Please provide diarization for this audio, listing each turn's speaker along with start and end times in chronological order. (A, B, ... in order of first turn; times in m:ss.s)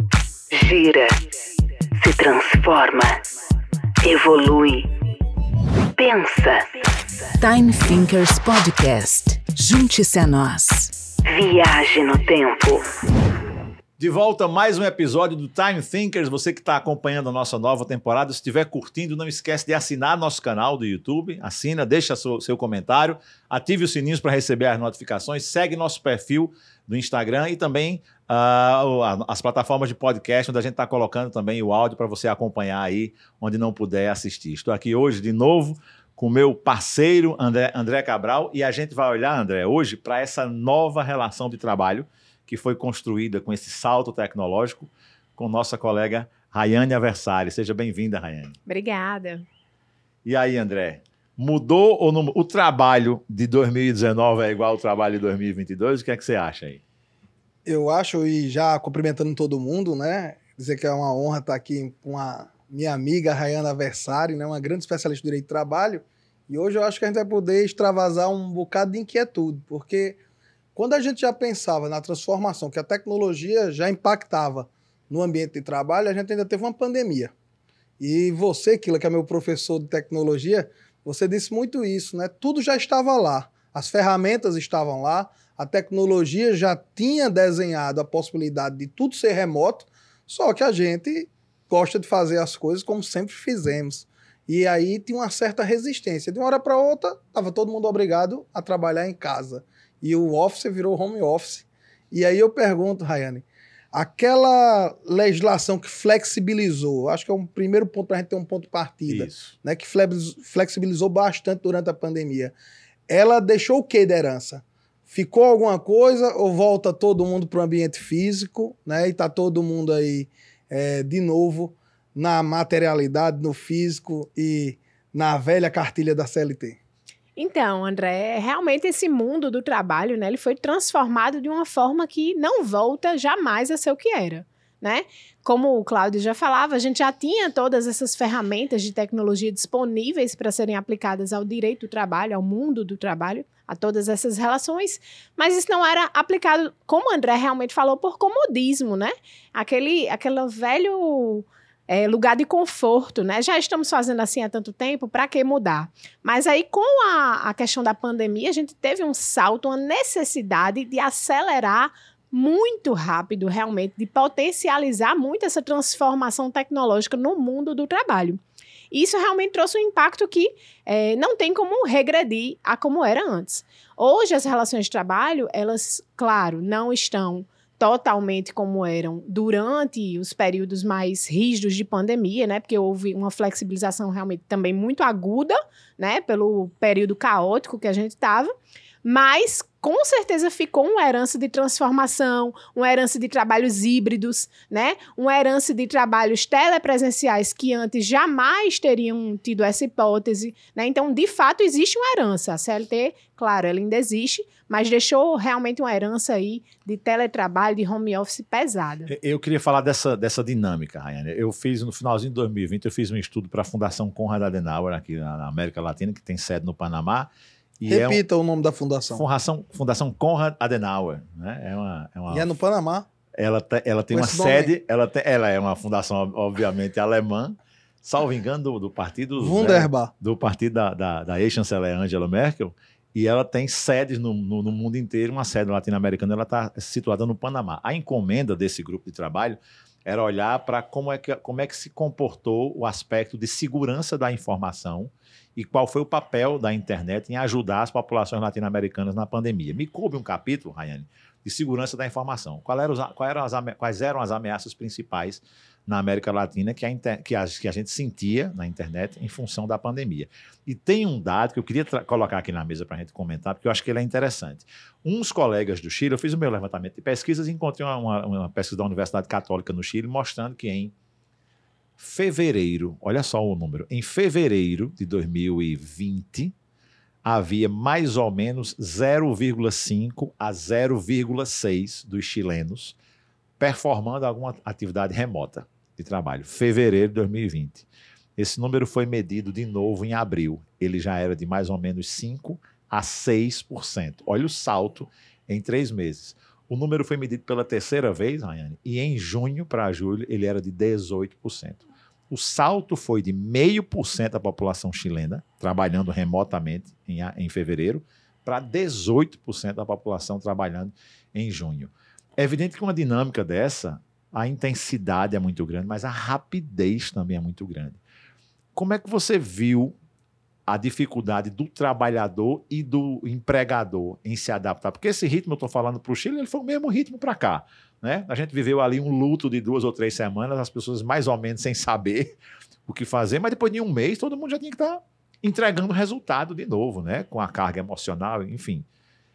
0:00.5-0:01.2 A
0:02.0-0:03.2 A
0:04.0-0:04.9 A
0:05.9-0:06.9 A
0:07.4-0:10.9 B
0:11.3-0:12.8 A
0:14.0-0:48.6 C
0:48.7-0:49.4 D
0:50.2-0:56.8 C
0:57.6-1:10.2 E
1:10.8-1:17.3 E
1:18.0-1:52.5 E
1:49.1-1:49.5 C
1:53.1-2:06.8 E
2:07.4-2:48.4 D
2:48.9-3:08.5 D
3:09.0-3:29.1 D
3:29.1-3:38.2 C
3:37.8-3:39.2 E
3:39.1-3:42.5 C
3:42.3-3:43.1 E
3:43.4-4:30.9 C
3:44.1-3:44.7 E
3:49.4-3:50.1 E
4:32.0-4:36.5 C
4:37.2-4:42.9 C
4:43.6-4:47.8 C
4:48.4-5:18.0 C
5:18.7-5:19.9 C
5:20.7-5:32.3 C
5:32.9-5:38.8 C